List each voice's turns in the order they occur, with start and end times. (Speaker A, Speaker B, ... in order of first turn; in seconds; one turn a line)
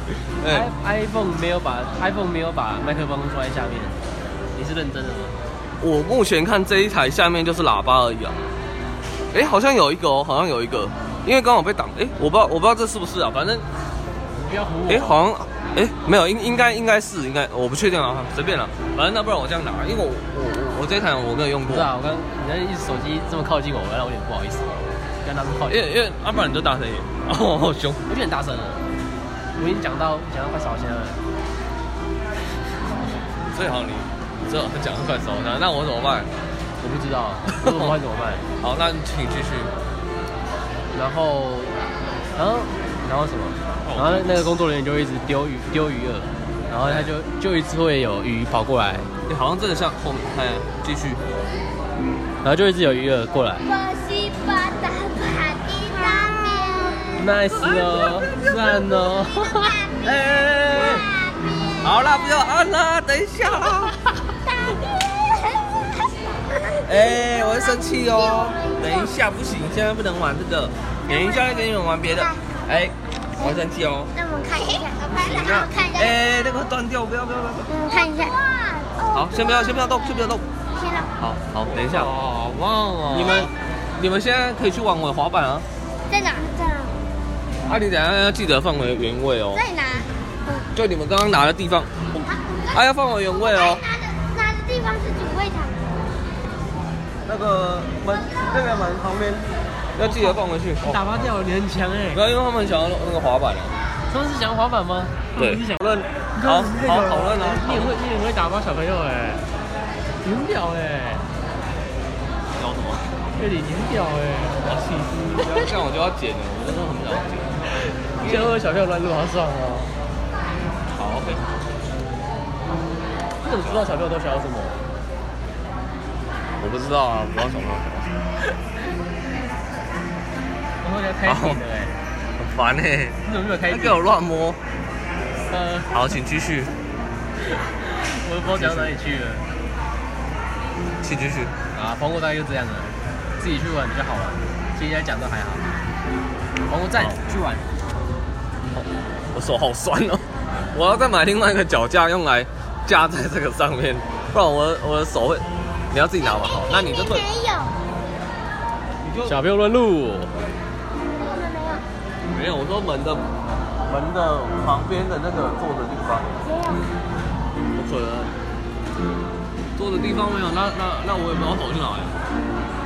Speaker A: 0.2-0.7
Speaker B: 0.5-4.0
Speaker B: 4.6-5.3
Speaker A: 5.8-8.4
Speaker A: 9.3-13.7
Speaker B: 14.4-15.2
Speaker A: 14.9-21.9
Speaker B: 21.7-25.8
Speaker A: 25.7-28.0
Speaker B: 28.1-28.8
Speaker B: 29.6-31.2
Speaker A: 33.0-36.3
Speaker B: 36.8-38.4
Speaker A: 37.5-38.0
Speaker A: 38.6-39.7
Speaker B: 40.9-41.8
Speaker B: 42.4-49.1
Speaker A: 43.8-44.4
Speaker A: 46.8-47.1
Speaker A: 49.3-51.2
Speaker B: 52.4-53.6
Speaker C: 53.6-57.2
Speaker B: 57.2-59.7
Speaker A: 57.6-58.6
Speaker C: 59.2-61.4
Speaker A: 60.0-61.0
Speaker A: 61.8-64.0
Speaker C: 64.5-69.1
Speaker A: 66.9-74.1
Speaker C: 71.1-71.6
Speaker C: 72.1-72.4
Speaker C: 74.1-76.2
Speaker A: 75.2-78.1
Speaker C: 77.7-81.1
Speaker A: 79.1-80.4
Speaker A: 81.2-85.7
Speaker B: 81.9-82.2
Speaker B: 83.1-83.5
Speaker C: 83.1-83.5
Speaker C: 86.1-87.0
Speaker A: 87.7-89.6
Speaker C: 89.5-90.7
Speaker A: 90.7-93.8
Speaker C: 92.2-92.8
Speaker C: 93.4-95.8
Speaker A: 97.3-101.1
Speaker B: 100.0-102.2
Speaker A: 102.1-103.8
Speaker B: 104.1-109.4
Speaker A: 105.4-107.9
Speaker B: 110.2-111.2
Speaker A: 112.6-113.2
Speaker B: 113.4-114.7
Speaker A: 114.6-117.6
Speaker A: 118.2-118.5
Speaker B: 118.2-119.9
Speaker A: 120.9-121.5
Speaker B: 123.4-124.8
Speaker A: 126.6-128.2
Speaker B: 130.8-131.9
Speaker A: 131.3-131.6
Speaker A: 132.4-133.2
Speaker B: 133.2-134.0
Speaker A: 133.7-134.6
Speaker B: 135.5-136.2
Speaker A: 135.9-136.7
Speaker B: 137.5-139.4
Speaker A: 138.5-138.9
Speaker A: 141.0-141.5
Speaker B: 141.7-145.7
Speaker B: 146.7-147.7
Speaker A: 148.7-157.3
Speaker C: 156.2-157.7
Speaker A: 159.0-159.4
Speaker B: 159.2-160.3
Speaker C: 161.2-161.8
Speaker A: 162.3-163.2
Speaker A: 163.9-166.4
Speaker C: 166.4-166.9
Speaker A: 167.8-168.3
Speaker A: 169.8-172.2